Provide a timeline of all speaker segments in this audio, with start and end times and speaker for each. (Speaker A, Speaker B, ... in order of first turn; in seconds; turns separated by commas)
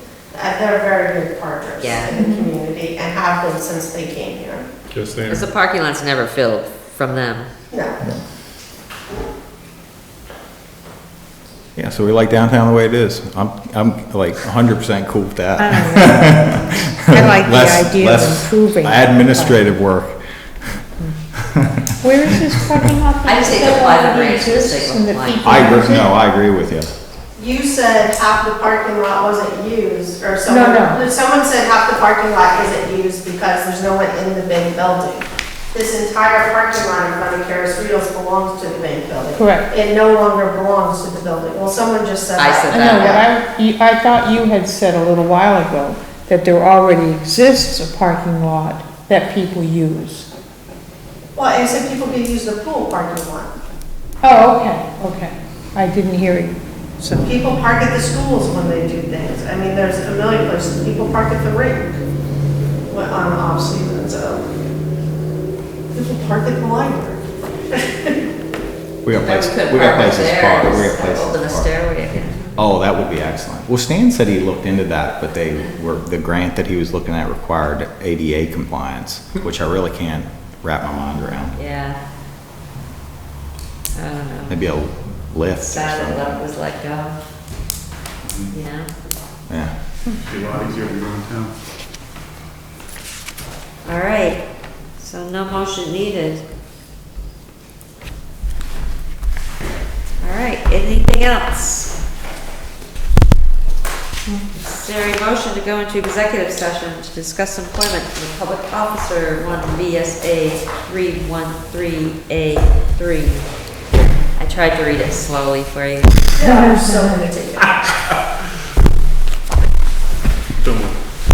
Speaker A: 0.3-4.7, Speaker B: 1.8-2.1, Speaker C: 2.1-2.5, Speaker D: 4.9-5.5, Speaker B: 5.3-7.5, Speaker A: 7.7-8.0, Speaker E: 11.7-20.8, Speaker C: 15.6-19.7, Speaker E: 21.4-21.8, Speaker C: 22.0-26.1, Speaker B: 23.2-25.7, Speaker E: 25.4-26.9, Speaker A: 27.4-43.2, Speaker C: 30.4-31.0, Speaker C: 39.4-39.7, Speaker B: 42.4-43.2, Speaker C: 42.7-50.3, Speaker A: 51.3-53.5, Speaker C: 54.2-57.2, Speaker A: 57.2-62.0, Speaker A: 62.9-64.5, Speaker A: 65.9-67.2, Speaker A: 67.7-68.1, Speaker E: 69.0-71.7, Speaker B: 69.2-72.5, Speaker E: 72.5-81.6, Speaker B: 81.5-82.0, Speaker B: 83.9-84.6, Speaker E: 84.5-86.4, Speaker B: 85.6-87.2, Speaker D: 88.2-88.5, Speaker B: 88.5-88.9, Speaker D: 90.2-91.5, Speaker B: 93.8-94.4, Speaker B: 95.0-96.4, Speaker B: 100.2-101.9, Speaker B: 104.6-116.2, Speaker A: 116.3-117.8, Speaker C: 116.4-117.3, Speaker D: 120.6-121.0